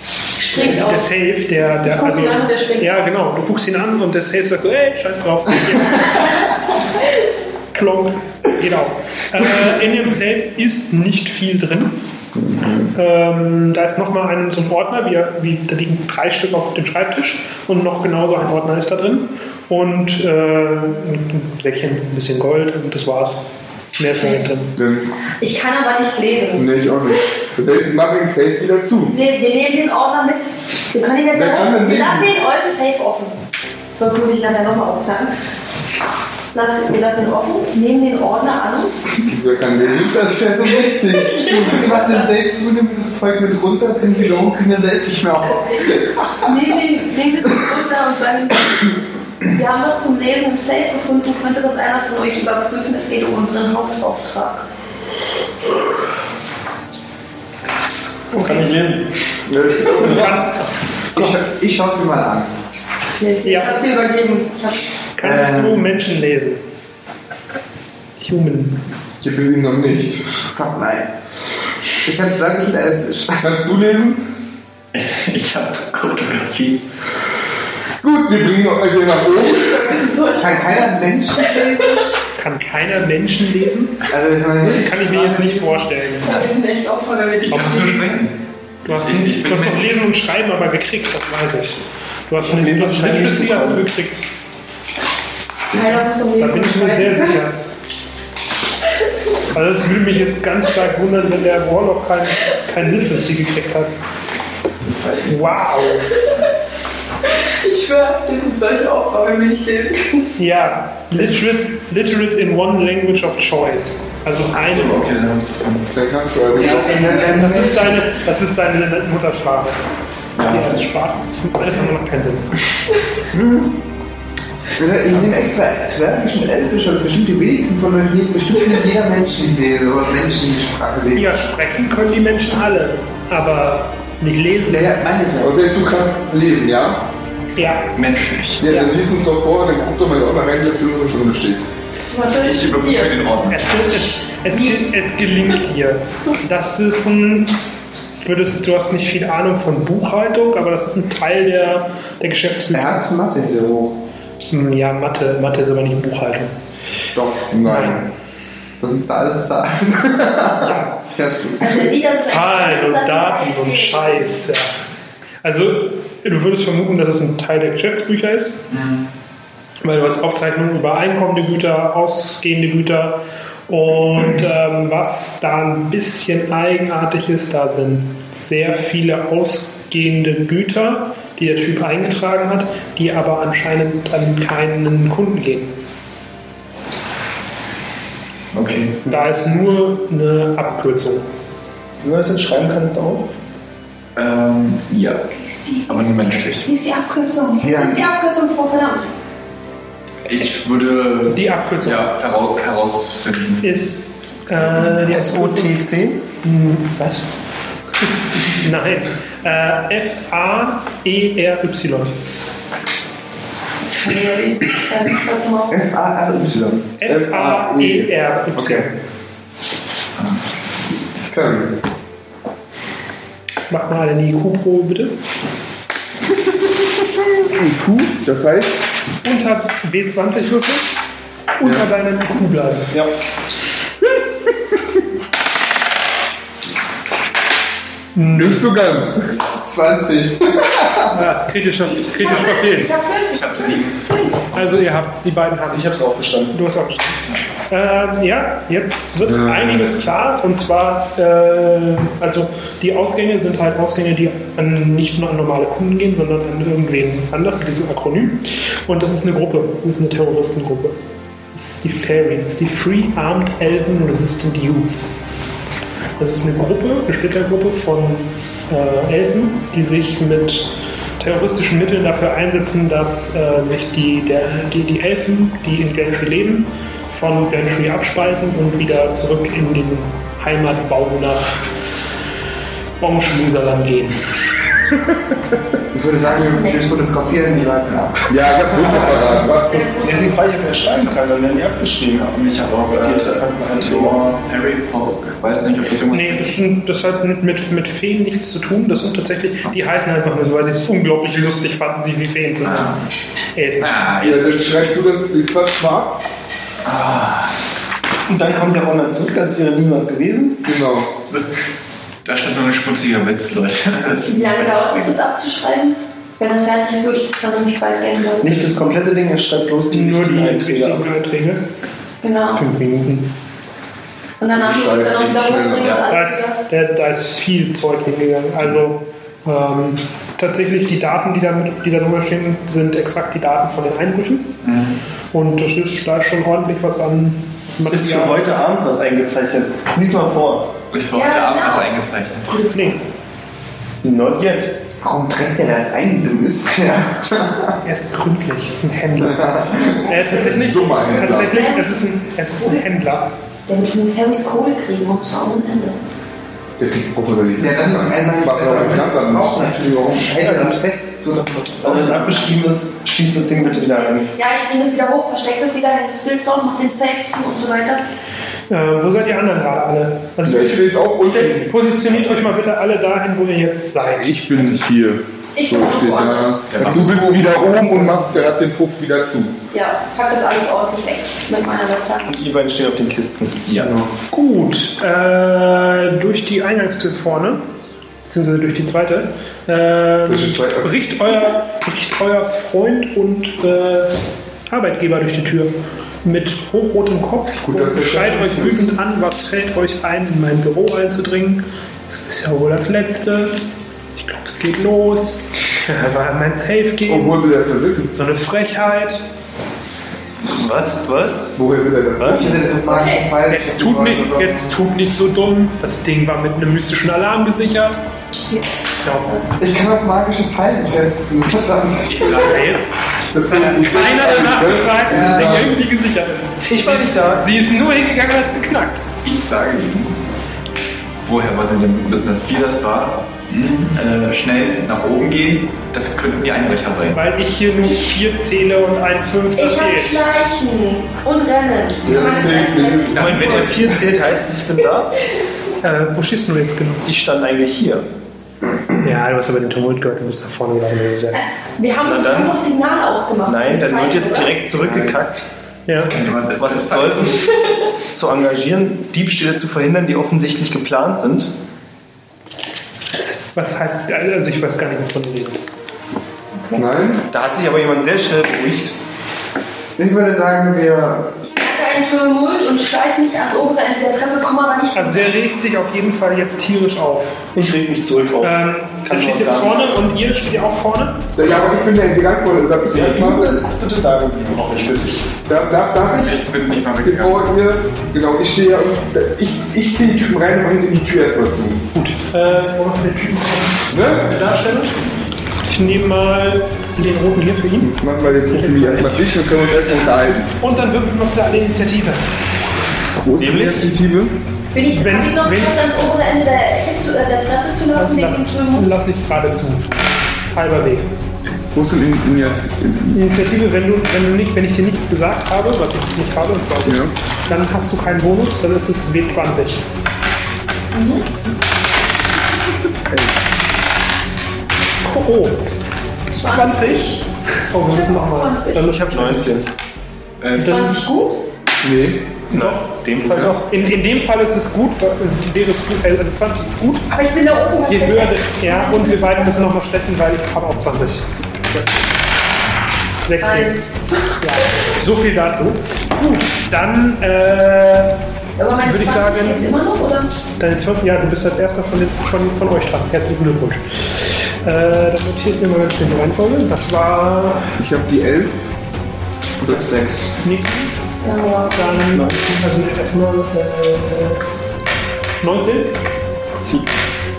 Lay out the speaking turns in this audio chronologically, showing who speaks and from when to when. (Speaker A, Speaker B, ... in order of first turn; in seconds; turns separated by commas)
Speaker A: 0.4-1.0, Speaker B: 0.5-6.3, Speaker A: 1.8-3.0, Speaker B: 7.7-12.0, Speaker B: 12.9-23.4, Speaker B: 24.0-24.7, Speaker C: 24.7-25.1, Speaker A: 25.4-26.7, Speaker C: 26.6-29.1, Speaker A: 29.1-33.4, Speaker C: 31.3-32.3, Speaker A: 33.9-35.3, Speaker A: 36.5-39.0, Speaker C: 39.2-40.4, Speaker D: 40.2-46.3, Speaker A: 46.4-48.9, Speaker A: 49.5-54.6, Speaker B: 58.3-58.7, Speaker E: 58.3-59.3, Speaker D: 59.5-60.4, Speaker C: 59.8-60.2, Speaker B: 59.9-61.3, Speaker D: 61.1-62.5, Speaker A: 63.1-64.8, Speaker B: 63.4-63.8, Speaker B: 65.2-66.6, Speaker D: 65.2-65.8, Speaker B: 68.2-68.8, Speaker C: 69.2-70.2, Speaker D: 70.5-71.1, Speaker D: 72.0-73.4, Speaker C: 73.4-74.2, Speaker F: 74.9-76.8, Speaker C: 78.0-79.8, Speaker A: 79.3-81.6, Speaker D: 80.4-81.9, Speaker B: 82.3-84.1, Speaker D: 84.1-85.8, Speaker B: 84.6-86.4, Speaker A: 86.2-88.0, Speaker F: 87.5-89.9, Speaker B: 87.5-88.2, Speaker B: 88.8-94.2, Speaker E: 92.4-93.8, Speaker A: 95.7-97.4, Speaker B: 96.4-97.5, Speaker B: 99.5-103.9, Speaker F: 104.8-105.6, Speaker B: 105.2-106.1, Speaker A: 107.2-110.3, Speaker B: 110.4-115.0, Speaker F: 114.5-115.9, Speaker C: 115.9-117.5, Speaker F: 116.5-117.2, Speaker D: 116.5-118.0, Speaker B: 117.1-122.5, Speaker F: 120.3-120.8, Speaker D: 123.3-123.7, Speaker D: 124.8-131.3, Speaker B: 131.1-134.9, Speaker D: 134.7-135.7, Speaker C: 135.4-137.1, Speaker B: 137.6-137.9, Speaker F: 137.9-138.6, Speaker C: 138.6-141.7, Speaker B: 138.7-138.9, Speaker A: 142.1-143.1, Speaker F: 142.4-143.7, Speaker B: 143.5-147.6, Speaker A: 144.5-144.8, Speaker B: 148.2-153.0, Speaker D: 152.7-154.0, Speaker B: 154.5-156.5, Speaker C: 157.1-158.0, Speaker B: 157.6-158.0, Speaker D: 158.8-161.8, Speaker B: 160.6-161.0, Speaker A: 161.6-164.4, Speaker B: 162.3-164.7, Speaker B: 165.4-168.6, Speaker F: 168.7-169.1, Speaker B: 169.8-185.7, Speaker F: 188.5-189.0, Speaker B: 189.1-191.2, Speaker E: 192.0-193.3, Speaker F: 194.2-195.3, Speaker A: 195.3-199.1, Speaker F: 195.8-196.7, Speaker D: 197.6-198.0, Speaker F: 200.2-203.7, Speaker B: 201.3-202.1, Speaker B: 203.6-205.8, Speaker E: 205.0-206.2, Speaker B: 206.4-207.3, Speaker B: 208.0-212.2, Speaker A: 214.0-215.8, Speaker D: 215.7-217.0, Speaker B: 217.0-218.9, Speaker C: 217.0-218.1, Speaker B: 223.7-225.1, Speaker C: 227.5-228.8, Speaker B: 229.2-230.9, Speaker B: 231.6-232.9, Speaker B: 238.1-238.7, Speaker C: 238.3-239.4, Speaker D: 239.5-241.2, Speaker B: 241.1-242.9, Speaker A: 242.1-244.4, Speaker F: 243.3-244.3, Speaker B: 244.5-246.0, Speaker E: 245.7-246.5, Speaker B: 246.5-260.9, Speaker B: 261.5-265.1, Speaker B: 266.2-281.6, Speaker B: 283.0-284.2, Speaker D: 285.9-289.5, Speaker A: 286.2-287.5, Speaker C: 288.3-289.9, Speaker A: 289.7-290.4, Speaker E: 290.0-292.3, Speaker F: 292.2-296.6, Speaker E: 292.9-294.2, Speaker B: 296.1-302.9, Speaker F: 302.6-303.0, Speaker B: 303.5-303.9, Speaker F: 303.8-304.9, Speaker C: 304.2-306.2, Speaker F: 306.8-307.5, Speaker E: 308.3-310.6, Speaker C: 310.6-311.1, Speaker F: 312.2-315.1, Speaker A: 314.2-318.8, Speaker E: 318.4-321.1, Speaker B: 319.9-321.6, Speaker A: 322.2-322.7, Speaker B: 322.5-323.3, Speaker A: 324.4-326.6, Speaker C: 324.5-326.0, Speaker F: 325.8-326.1, Speaker B: 326.1-334.5, Speaker F: 334.6-335.0, Speaker B: 335.3-338.6, Speaker E: 337.9-340.7, Speaker F: 340.9-342.5, Speaker A: 341.1-342.0, Speaker A: 342.5-342.9, Speaker B: 342.7-343.0, Speaker E: 344.0-344.8, Speaker D: 345.0-347.8, Speaker B: 347.8-353.3, Speaker D: 349.3-349.9, Speaker C: 350.3-351.7, Speaker A: 351.1-352.1, Speaker A: 353.7-356.0, Speaker C: 356.8-359.9, Speaker D: 357.6-362.5, Speaker E: 361.8-364.3, Speaker A: 363.5-368.0, Speaker B: 368.7-374.6, Speaker C: 370.4-371.8, Speaker C: 374.2-379.5, Speaker A: 375.5-376.6, Speaker F: 376.7-377.8, Speaker A: 379.7-382.3, Speaker E: 382.2-383.6, Speaker F: 383.7-383.9, Speaker C: 383.8-384.1, Speaker B: 384.3-387.6, Speaker B: 388.2-394.1, Speaker C: 390.3-391.0, Speaker B: 394.7-395.7, Speaker B: 396.2-403.6, Speaker C: 397.6-398.9, Speaker B: 404.1-407.4, Speaker C: 407.0-408.1, Speaker B: 408.1-409.2, Speaker E: 410.4-411.5, Speaker C: 411.6-412.5, Speaker E: 412.2-412.5, Speaker D: 412.2-414.8, Speaker A: 412.8-413.3, Speaker B: 413.5-418.0, Speaker B: 419.0-419.4, Speaker D: 419.6-422.5, Speaker F: 422.0-422.8, Speaker B: 422.2-429.1, Speaker C: 423.3-425.8, Speaker D: 423.6-423.9, Speaker D: 425.1-425.7, Speaker E: 426.7-427.5, Speaker F: 429.2-430.1, Speaker F: 431.2-437.2, Speaker B: 437.1-440.2, Speaker A: 439.6-443.2, Speaker C: 442.0-443.4, Speaker F: 443.1-443.9, Speaker E: 443.1-445.1, Speaker B: 445.8-447.1, Speaker E: 447.0-448.1, Speaker B: 449.0-451.4, Speaker A: 451.3-454.5, Speaker E: 452.0-452.6, Speaker E: 453.4-455.4, Speaker F: 454.8-455.1, Speaker B: 455.9-456.1, Speaker F: 456.1-457.4, Speaker E: 456.6-457.5, Speaker E: 458.1-461.5, Speaker B: 463.1-465.6, Speaker A: 466.5-466.9, Speaker C: 466.8-467.2, Speaker E: 467.3-468.9, Speaker D: 470.0-471.3, Speaker A: 471.5-475.3, Speaker B: 474.9-477.5, Speaker E: 477.5-480.0, Speaker B: 478.4-481.3, Speaker C: 481.4-483.5, Speaker E: 482.9-485.3, Speaker C: 485.4-486.4, Speaker F: 486.1-487.4, Speaker C: 487.0-491.8, Speaker B: 491.9-495.0, Speaker C: 493.9-494.3, Speaker B: 495.7-497.9, Speaker C: 497.8-500.5, Speaker B: 498.6-499.3, Speaker B: 500.6-502.2, Speaker C: 503.2-504.3, Speaker E: 503.4-504.0, Speaker A: 504.7-508.9, Speaker B: 504.9-505.8, Speaker B: 507.9-511.1, Speaker C: 511.7-513.2, Speaker B: 513.1-519.8, Speaker C: 516.8-517.1, Speaker A: 520.9-521.5, Speaker C: 523.1-523.4, Speaker B: 525.0-525.8, Speaker A: 526.3-527.2, Speaker B: 526.4-527.2, Speaker B: 527.7-529.5, Speaker A: 527.8-529.0, Speaker E: 528.8-529.7, Speaker F: 530.4-530.7, Speaker A: 530.5-531.4, Speaker B: 530.5-531.0, Speaker C: 531.8-532.4, Speaker E: 532.5-533.7, Speaker B: 532.5-537.1, Speaker C: 533.2-533.5, Speaker A: 537.1-539.5, Speaker B: 537.8-541.2, Speaker B: 543.2-543.8, Speaker A: 543.4-544.3, Speaker B: 544.4-548.1, Speaker A: 548.6-550.4, Speaker B: 548.8-549.6, Speaker B: 550.6-557.6, Speaker C: 557.8-558.5, Speaker C: 559.6-560.0, Speaker D: 559.7-560.3, Speaker B: 560.4-560.9, Speaker A: 561.2-562.0, Speaker B: 561.7-564.4, Speaker E: 562.1-562.4, Speaker B: 565.4-566.0